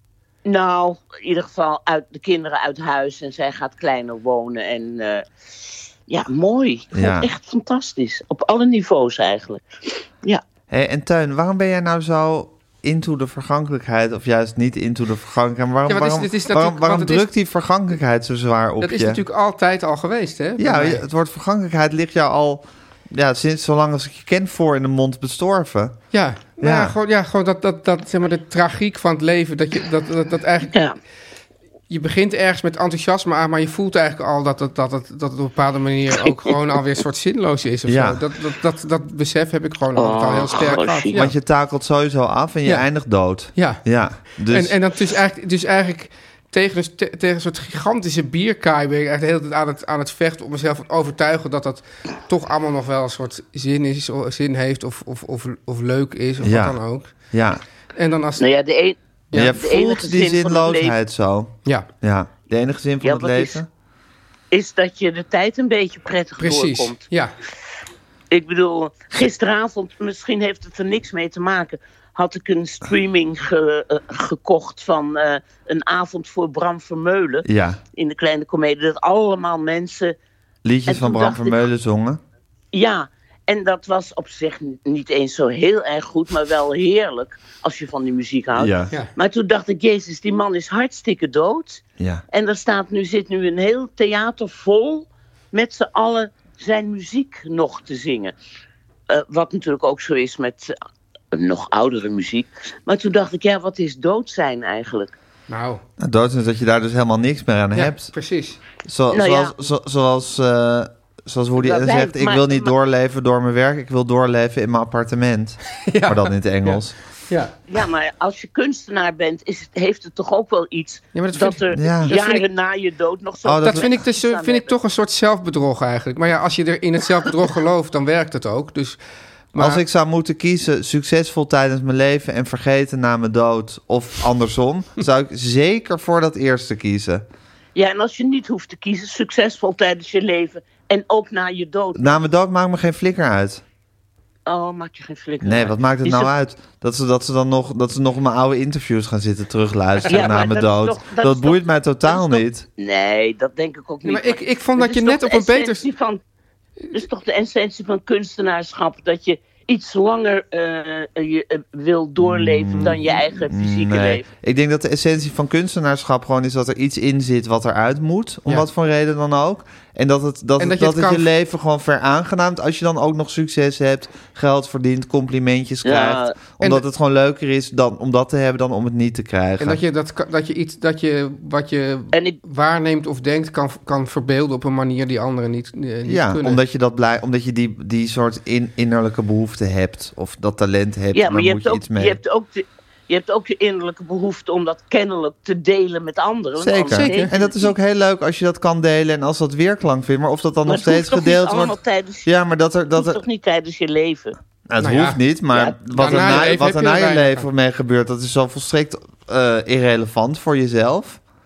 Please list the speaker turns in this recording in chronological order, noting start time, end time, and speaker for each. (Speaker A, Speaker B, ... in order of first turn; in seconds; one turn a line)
Speaker A: 0.4-9.6
Speaker B: 6.9-7.3
Speaker B: 10.7-19.2
Speaker C: 15.9-17.2
Speaker C: 18.8-21.0
Speaker B: 20.6-26.0
Speaker C: 26.1-30.7
Speaker B: 26.6-26.9
Speaker A: 30.7-30.9
Speaker C: 31.9-41.3
Speaker B: 37.9-38.2
Speaker A: 40.0-41.2
Speaker B: 41.1-44.8
Speaker C: 43.5-43.8
Speaker C: 44.4-57.1
Speaker B: 56.4-56.8
Speaker B: 57.3-57.6
Speaker C: 57.9-58.5
Speaker A: 58.4-60.9
Speaker B: 59.3-63.7
Speaker A: 63.0-63.6
Speaker A: 64.5-67.0
Speaker C: 66.4-67.3
Speaker A: 68.3-80.2
Speaker B: 77.4-77.8
Speaker B: 80.6-82.2
Speaker A: 80.9-81.6
Speaker A: 82.7-98.3
Speaker B: 88.5-88.9
Speaker A: 99.1-100.7
Speaker A: 101.3-105.1
Speaker C: 105.5-105.8
Speaker B: 106.0-108.1
Speaker C: 107.7-108.6
Speaker B: 108.8-117.0
Speaker A: 109.1-109.5
Speaker A: 111.6-112.7
Speaker C: 115.8-117.5
Speaker A: 117.7-124.7
Speaker C: 121.1-122.4
Speaker B: 121.7-122.2
Speaker B: 123.4-123.9
Speaker C: 123.6-129.0
Speaker C: 129.5-129.8
Speaker B: 129.6-137.2
Speaker A: 137.7-142.2
Speaker B: 141.9-143.6
Speaker A: 144.4-146.3
Speaker B: 145.4-152.7
Speaker A: 150.1-156.2
Speaker C: 154.0-155.8
Speaker A: 156.9-164.2
Speaker B: 162.2-179.8
Speaker C: 170.6-171.3
Speaker A: 175.8-176.3
Speaker C: 179.6-186.6
Speaker A: 182.1-182.4
Speaker B: 186.0-192.2
Speaker A: 191.1-197.7
Speaker B: 196.6-203.2
Speaker C: 196.9-197.3
Speaker A: 200.7-202.3
Speaker A: 202.9-204.3
Speaker B: 204.7-211.2
Speaker C: 204.8-205.2
Speaker C: 205.9-207.5